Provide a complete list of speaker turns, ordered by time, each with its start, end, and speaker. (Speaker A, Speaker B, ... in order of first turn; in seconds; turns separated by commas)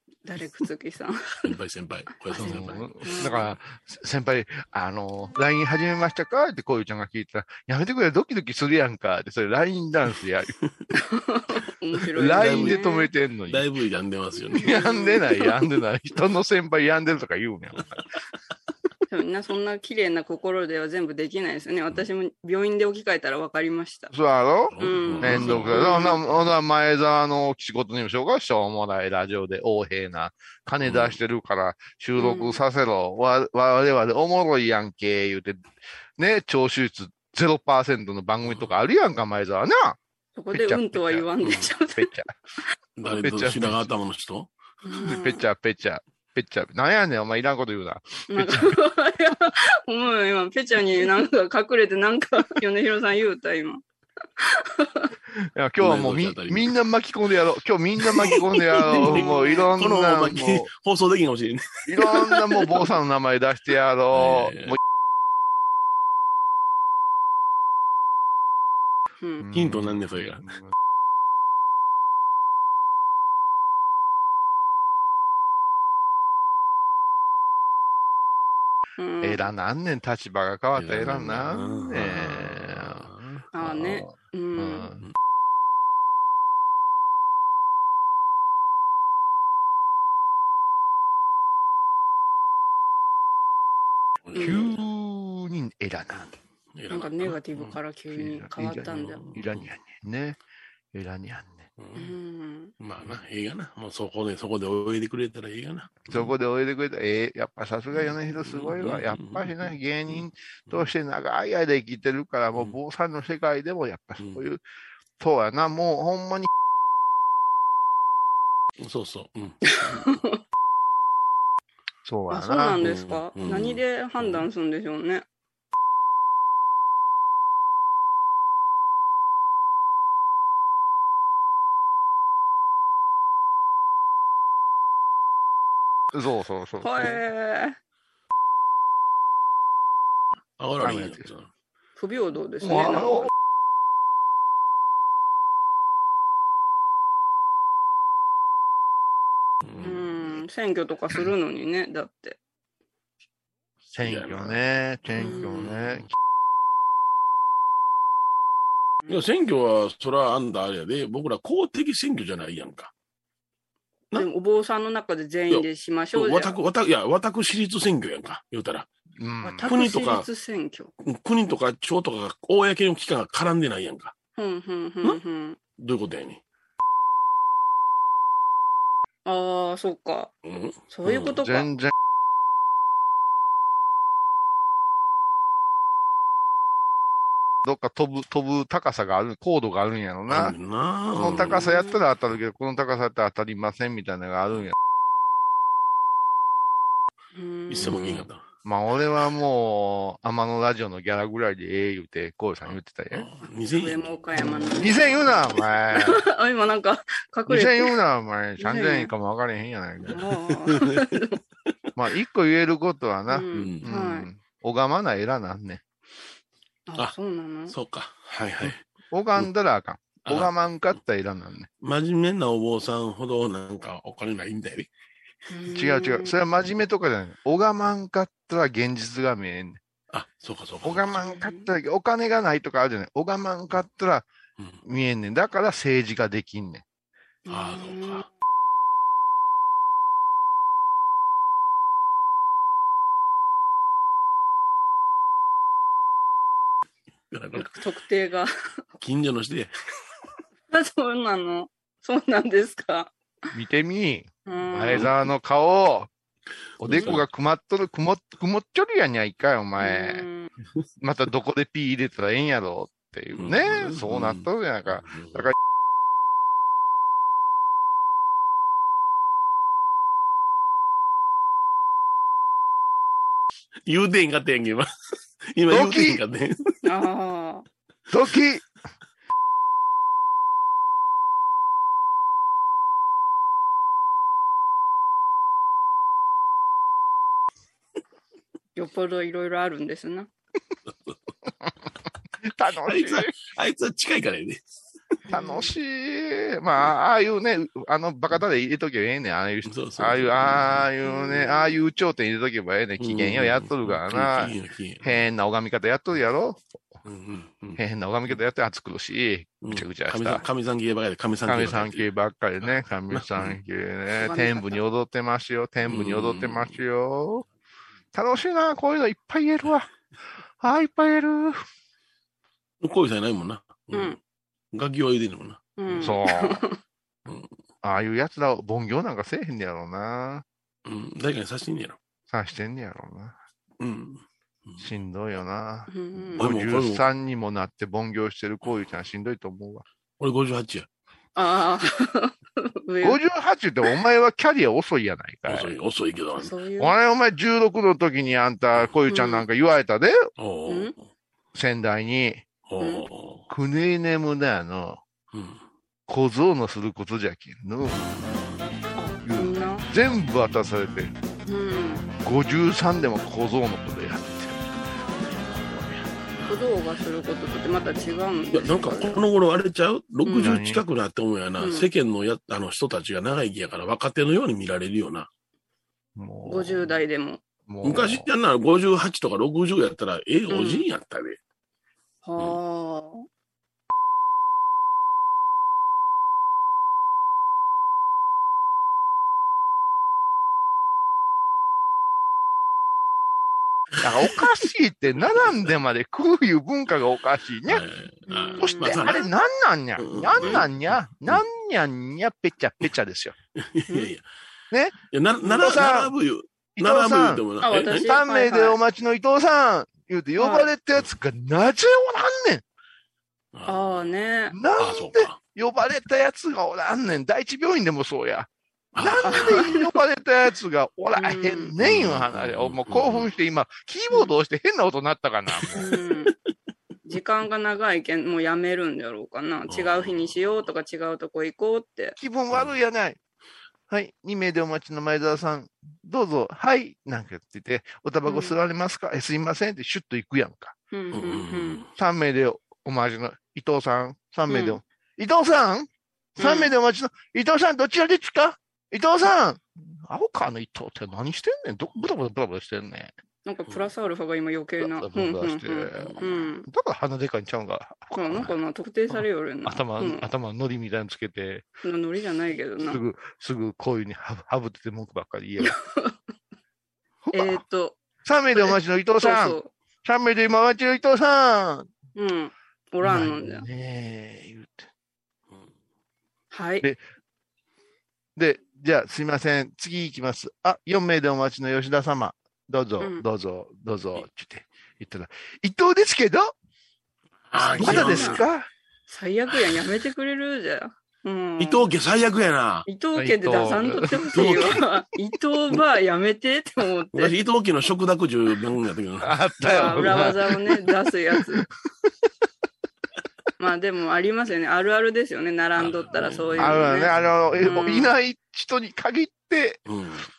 Speaker A: 0.2-1.4, Speaker B: 1.4-2.9, Speaker A: 2.3-3.5, Speaker C: 2.4-10.6, Speaker A: 11.0-13.1, Speaker C: 12.2-13.7, Speaker B: 12.2-12.8, Speaker B: 13.5-14.8, Speaker C: 14.6-17.9, Speaker A: 14.6-15.5, Speaker A: 19.1-24.1, Speaker C: 24.1-35.6, Speaker B: 24.7-25.9, Speaker A: 24.8-26.2, Speaker B: 30.8-31.2, Speaker A: 32.2-32.6, Speaker C: 36.2-40.0, Speaker A: 40.4-42.1, Speaker C: 40.5-41.3, Speaker B: 41.4-41.7, Speaker C: 42.0-42.4, Speaker B: 43.0-44.5, Speaker C: 43.0-43.9, Speaker A: 44.8-45.4, Speaker C: 45.0-48.8, Speaker A: 48.3-53.8, Speaker A: 54.4-55.1, Speaker C: 55.3-60.7, Speaker B: 55.8-56.7, Speaker B: 58.1-61.9, Speaker A: 58.8-59.7, Speaker C: 61.9-64.8, Speaker B: 64.1-64.8, Speaker C: 69.4-70.7, Speaker B: 69.5-70.5, Speaker A: 79.0-79.5, Speaker C: 79.2-83.1, Speaker B: 80.8-83.4, Speaker A: 83.5-84.9, Speaker C: 83.6-85.0, Speaker B: 94.3-94.7, Speaker C: 94.3-96.4, Speaker B: 96.8-97.8, Speaker A: 96.9-99.2, Speaker C: 98.1-100.4, Speaker B: 99.2-99.6, Speaker C: 100.9-101.7, Speaker B: 101.8-102.1, Speaker A: 102.0-102.7, Speaker B: 102.8-106.3, Speaker C: 106.1-114.6, Speaker B: 107.9-109.7, Speaker C: 115.2-116.5, Speaker B: 118.8-120.1, Speaker A: 119.7-120.4, Speaker C: 122.0-122.8, Speaker A: 122.3-125.2, Speaker B: 122.8-124.5, Speaker C: 136.1-137.2, Speaker A: 136.8-137.8, Speaker B: 140.6-141.5, Speaker C: 140.8-141.3, Speaker A: 142.0-143.3, Speaker C: 142.6-143.3, Speaker B: 149.7-150.1, Speaker A: 149.8-152.4, Speaker C: 153.9-156.1, Speaker B: 154.0-154.6, Speaker A: 155.2-155.6, Speaker B: 155.2-156.1, Speaker B: 159.1-162.9, Speaker A: 164.2-166.6, Speaker B: 165.5-168.9, Speaker C: 169.2-169.8, Speaker A: 169.4-170.9, Speaker B: 169.6-170.3, Speaker B: 171.0-174.1, Speaker A: 174.4-175.6, Speaker B: 175.8-176.4, Speaker A: 179.2-180.3, Speaker B: 180.4-181.4, Speaker A: 180.9-181.7, Speaker C: 181.4-181.9, Speaker C: 187.6-190.6, Speaker B: 190.3-191.6, Speaker C: 191.2-194.8, Speaker A: 191.4-192.0, Speaker A: 197.3-198.2, Speaker B: 197.7-198.4, Speaker C: 197.8-203.3, Speaker B: 203.1-205.0, Speaker A: 203.8-205.0, Speaker C: 204.7-206.2, Speaker A: 205.9-207.9, Speaker C: 207.5-210.2, Speaker A: 208.6-209.1, Speaker B: 210.0-211.1, Speaker A: 210.1-211.4, Speaker C: 212.0-215.8, Speaker A: 213.3-214.3, Speaker B: 213.5-213.8, Speaker A: 216.9-217.7, Speaker B: 217.7-218.8, Speaker C: 218.6-221.7, Speaker B: 220.3-220.5, Speaker B: 221.8-224.9, Speaker A: 225.5-226.3, Speaker C: 225.7-229.8, Speaker B: 230.1-231.1, Speaker C: 230.8-234.3, Speaker A: 231.2-231.7, Speaker C: 234.8-236.8, Speaker A: 237.5-238.3, Speaker B: 237.5-238.2, Speaker B: 247.3-247.8, Speaker A: 247.6-248.5, Speaker B: 249.0-249.7, Speaker A: 250.7-253.1, Speaker C: 253.5-256.1, Speaker A: 254.5-255.1, Speaker C: 256.8-260.3, Speaker B: 256.8-257.2, Speaker A: 259.8-260.5, Speaker C: 261.0-265.5, Speaker B: 263.4-265.5, Speaker B: 273.9-274.9, Speaker B: 275.5-276.8, Speaker C: 275.7-276.2, Speaker A: 276.8-277.6, Speaker C: 278.1-278.6, Speaker A: 288.8-290.3, Speaker B: 290.9-291.2, Speaker C: 292.4-293.3, Speaker B: 292.9-294.6, Speaker A: 295.3-295.7, Speaker C: 295.3-306.9, Speaker B: 299.6-300.9, Speaker A: 301.0-301.8, Speaker B: 303.0-305.3, Speaker B: 307.1-307.8, Speaker C: 307.8-310.4, Speaker B: 309.6-312.1, Speaker C: 311.5-317.4, Speaker B: 313.1-313.6, Speaker A: 314.2-314.8, Speaker B: 315.9-316.8, Speaker C: 318.1-319.9, Speaker C: 320.6-321.6, Speaker B: 322.8-324.2, Speaker B: 324.7-326.1, Speaker A: 325.8-326.8, Speaker C: 326.0-326.6, Speaker C: 327.8-330.4, Speaker B: 330.9-332.0, Speaker C: 332.3-333.4, Speaker B: 333.8-334.9, Speaker C: 334.8-339.8, Speaker A: 335.9-336.4, Speaker B: 336.4-337.1, Speaker B: 340.2-340.9, Speaker A: 341.4-343.2, Speaker C: 343.0-345.7, Speaker B: 345.5-346.5, Speaker A: 346.4-346.9, Speaker C: 346.8-350.2, Speaker A: 349.1-349.4, Speaker B: 350.4-351.0, Speaker A: 350.7-350.9, Speaker C: 351.5-352.5, Speaker B: 352.7-353.5, Speaker C: 353.5-355.0, Speaker B: 355.3-355.6, Speaker C: 356.1-358.1, Speaker B: 358.1-358.6, Speaker A: 359.0-359.9, Speaker C: 359.2-361.1, Speaker A: 361.5-362.1, Speaker C: 362.2-364.6, Speaker B: 365.5-366.6, Speaker A: 366.5-369.2, Speaker B: 368.5-375.3, Speaker A: 370.2-370.6, Speaker C: 370.4-370.8, Speaker A: 371.6-371.9, Speaker C: 376.2-377.0, Speaker A: 376.5-377.4, Speaker C: 377.7-378.3, Speaker B: 377.8-381.4, Speaker A: 380.5-380.9, Speaker A: 382.2-383.3, Speaker C: 394.0-397.8, Speaker B: 397.7-399.2, Speaker A: 398.3-399.3, Speaker C: 398.6-403.4, Speaker B: 400.0-400.7, Speaker B: 403.6-404.2, Speaker C: 404.7-406.1, Speaker B: 405.1-408.1, Speaker C: 406.8-407.4, Speaker A: 407.6-408.8, Speaker C: 408.0-412.6, Speaker A: 410.4-410.7, Speaker B: 413.5-414.1, Speaker A: 413.7-414.6, Speaker C: 414.5-425.9, Speaker B: 414.8-415.4, Speaker B: 418.9-419.7, Speaker A: 419.2-420.0, Speaker A: 421.1-421.7, Speaker B: 421.8-423.3, Speaker B: 425.6-426.0, Speaker A: 425.8-426.3, Speaker A: 427.1-432.2, Speaker B: 429.7-430.6, Speaker C: 432.2-433.2, Speaker C: 433.9-440.8, Speaker A: 438.3-438.6, Speaker A: 440.9-441.8, Speaker B: 441.1-441.9, Speaker C: 442.0-453.1, Speaker A: 444.5-444.8, Speaker A: 446.4-446.7, Speaker A: 453.5-456.7, Speaker C: 454.8-458.6, Speaker A: 458.1-460.3, Speaker C: 459.7-461.7, Speaker A: 461.8-463.0, Speaker C: 462.8-465.8, Speaker A: 465.6-466.1, Speaker C: 467.2-467.6, Speaker A: 467.3-468.0, Speaker C: 468.2-471.9, Speaker A: 468.5-469.7, Speaker A: 472.2-473.7, Speaker C: 473.0-474.9, Speaker A: 476.5-476.9, Speaker C: 478.4-486.5, Speaker B: 487.5-488.4, Speaker C: 487.6-488.7, Speaker A: 487.7-488.4, Speaker A: 489.1-491.9, Speaker B: 491.6-492.9, Speaker A: 492.9-497.4, Speaker C: 493.1-494.7, Speaker B: 494.3-494.8, Speaker B: 497.1-500.2, Speaker C: 499.2-500.8, Speaker A: 499.6-501.6, Speaker C: 501.3-501.6, Speaker A: 503.6-508.1, Speaker B: 505.8-507.8, Speaker C: 506.6-509.8, Speaker B: 509.9-510.3